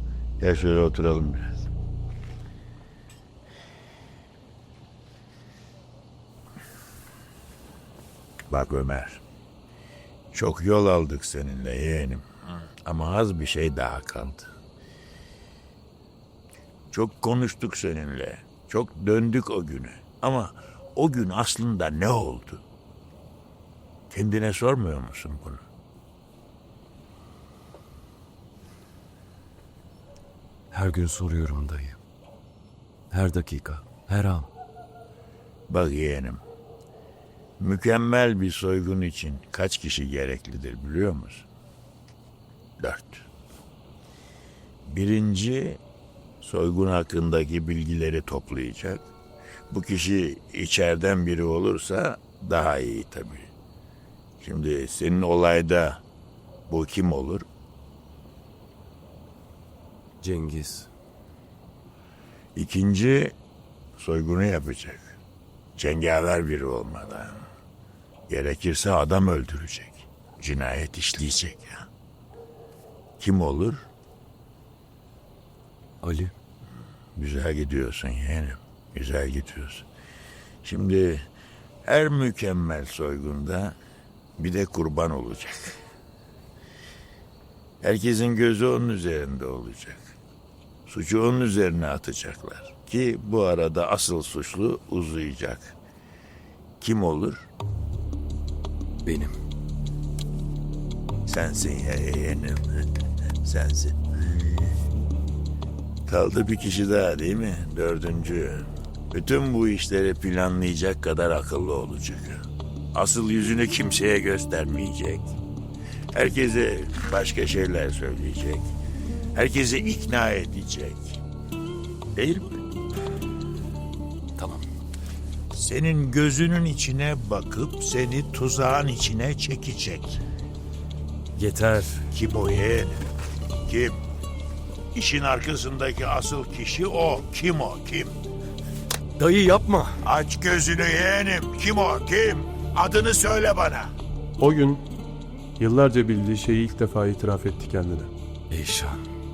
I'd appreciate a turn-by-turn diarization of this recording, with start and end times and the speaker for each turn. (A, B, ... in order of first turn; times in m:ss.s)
0:00.4-0:01.6 A
0:08.5-0:09.2 A
0:10.3-0:12.3 A
0:12.8-0:14.5 A
0:16.9-0:22.6 A
0:24.1-0:25.6 A
0:30.7-0:32.0 B
0:33.1-0:34.5 B
0:35.7-0:36.4 A
0:37.6-0:41.5 A
0:42.8-0:43.3 A
0:44.8-0:45.8 A
0:46.4-0:49.1 A
0:49.7-0:53.5 A
0:54.4-0:56.0 A
0:56.7-0:57.5 A
1:00.2-1:00.9 B
1:02.6-1:03.4 A
1:04.0-1:05.2 A
1:05.8-1:07.5 A
1:08.3-1:11.9 A
1:13.2-1:13.9 A
1:16.0-1:16.3 B
1:17.2-1:19.9 A
1:20.6-1:21.3 A
1:21.8-1:23.8 A
1:24.4-1:25.8 A
1:27.8-1:30.1 A
1:30.9-1:35.8 A
1:36.8-1:37.5 A
1:39.0-1:39.3 B
1:41.2-1:42.9 A
1:43.4-1:44.0 A
1:46.1-1:55.4 A
1:56.1-1:58.7 A
1:59.4-2:01.2 A
2:02.2-2:02.6 A
2:04.4-2:04.6 B
2:05.5-2:10.2 A
2:11.4-2:12.1 B
2:12.1-2:13.0 A
2:13.6-2:14.0 A
2:14.9-2:18.2 A
2:19.2-2:20.0 B
2:20.0-2:23.9 A
2:24.4-2:24.8 C
2:25.6-2:28.1 C
2:28.5-2:29.0 B